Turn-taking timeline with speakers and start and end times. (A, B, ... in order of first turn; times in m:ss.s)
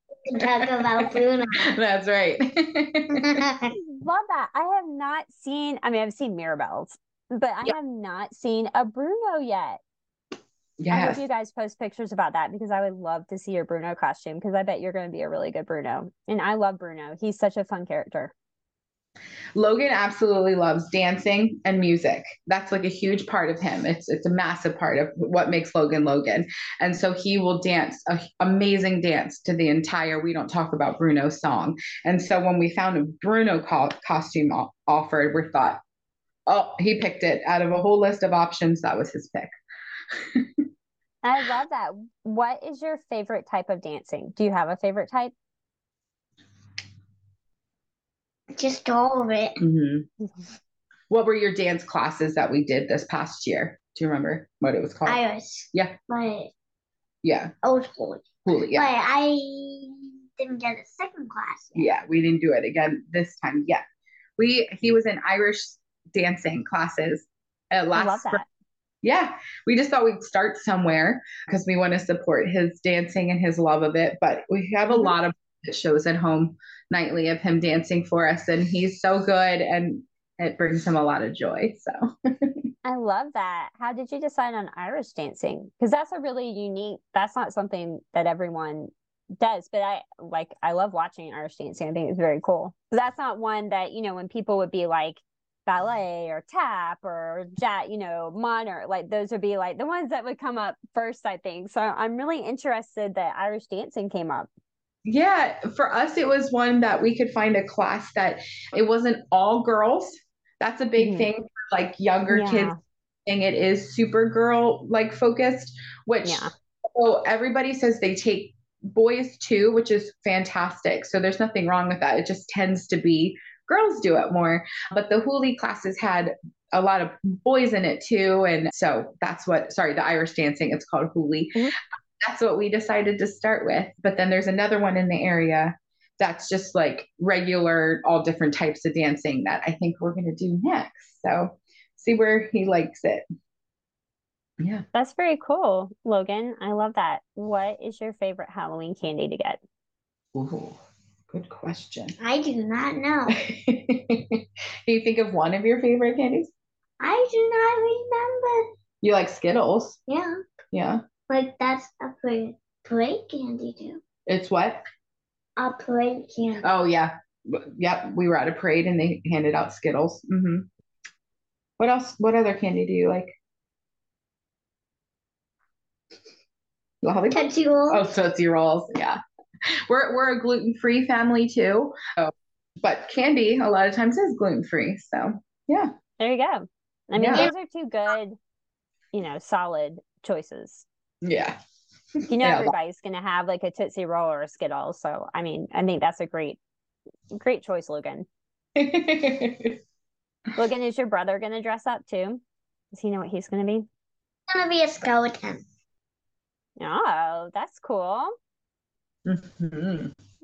0:00.2-0:01.7 A
0:00.4-0:03.4 B
0:03.2-0:03.7 A
0:03.8-0:09.8 C
0:10.8-0:11.2 B
0:10.9-0:18.3 C
0:19.6-0:35.8 B
0:36.5-0:39.5 B
0:40.1-0:40.6 B
0:41.2-0:45.3 C
0:48.5-0:49.6 A
0:49.6-0:50.1 B
0:51.1-0:55.2 B
0:55.0-0:56.5 A
0:57.2-0:57.5 B
0:57.6-1:01.9 A
0:58.4-0:58.9 B
1:01.8-1:03.8 B
1:04.4-1:08.4 B
1:07.9-1:08.4 C
1:09.0-1:22.6 B
1:22.8-1:44.5 C
1:45.0-1:52.7 B
1:51.0-1:51.3 C
1:52.3-1:52.8 C
1:53.2-2:11.6 B
1:56.2-1:56.5 C
2:12.2-2:23.2 B
2:24.6-2:24.8 B
2:24.9-2:29.6 C
2:30.3-2:32.1 B
2:32.2-2:33.4 A
2:33.3-2:36.5 B
2:37.0-2:38.7 A
2:39.0-2:40.0 B
2:40.1-2:40.4 A
2:40.7-2:41.0 B
2:41.3-2:44.0 A
2:44.2-2:44.8 B
2:45.6-2:46.7 A
2:46.6-2:50.7 B
2:51.8-2:53.3 B
2:57.0-3:05.9 B
2:57.3-2:58.0 A
3:06.2-3:08.4 C
3:07.2-3:07.5 B
3:09.1-3:10.8 C
3:11.2-3:11.6 B
3:12.3-3:16.6 C
3:12.4-3:12.7 B
3:17.3-3:18.2 C
3:18.8-3:19.8 B
3:20.6-3:23.9 C
3:24.5-3:25.6 A
3:26.8-3:28.3 C
3:29.2-3:30.1 B